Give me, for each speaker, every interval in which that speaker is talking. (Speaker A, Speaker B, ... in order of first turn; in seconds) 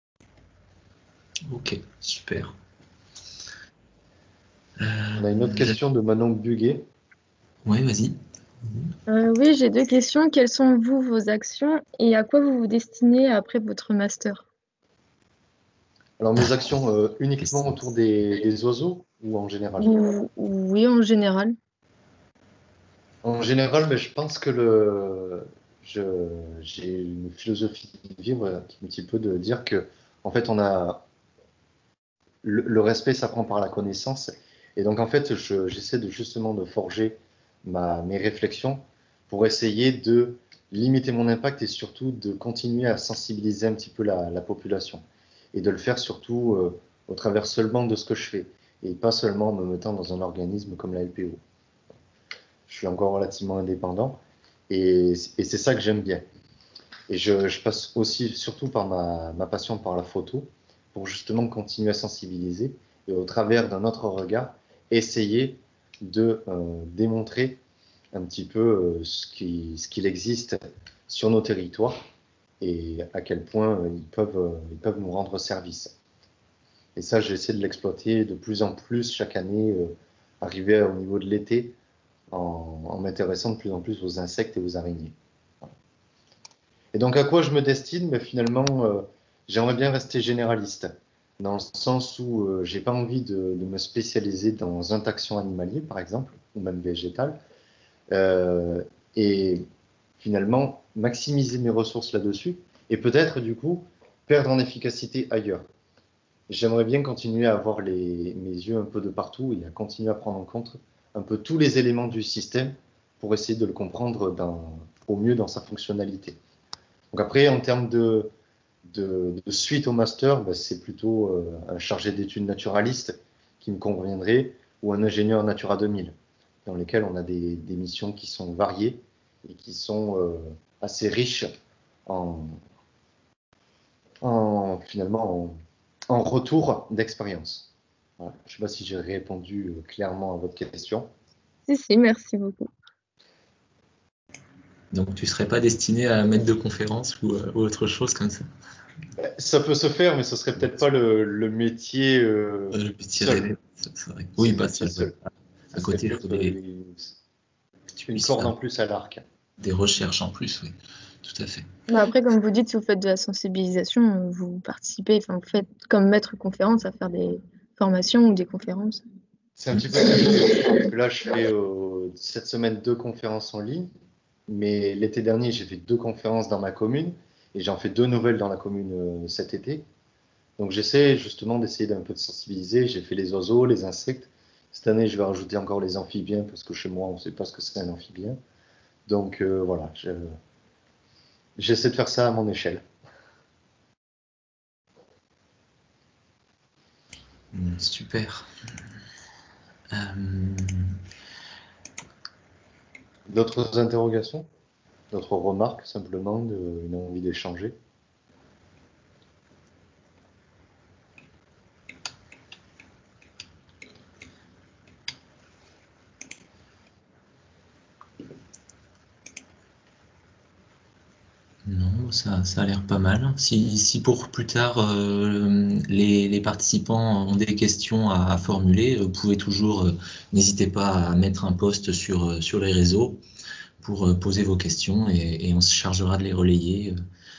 Speaker A: 1.5-2.5, 4.8-5.8, 7.6-8.9, 144.9-148.5, 152.7-155.2, 155.7-156.5, 158.1-158.5, 159.6-161.7, 197.5-198.5, 199.9-201.0, 221.6-233.2, 233.8-236.9
Speaker B: 5.2-6.8, 16.2-20.0, 23.2-31.0, 32.4-51.4, 52.7-54.2, 54.7-56.2, 57.1-67.6, 68.1-72.0, 72.6-75.9, 77.0-81.8, 82.3-85.7, 86.9-97.4, 98.1-99.7, 100.2-105.7, 106.5-116.4, 117.1-118.3, 118.9-126.1, 126.7-131.5, 132.1-132.6, 134.2-135.6, 136.1-141.1, 149.2-153.5, 154.4-155.2, 155.7-157.2, 158.0-159.2, 169.6-173.9, 174.5-179.8, 180.6-188.4, 189.1-190.3, 191.6-192.8, 203.3-204.5, 205.1-207.8
Speaker C: 9.1-14.5, 19.8-21.6, 141.7-142.7, 161.9-169.0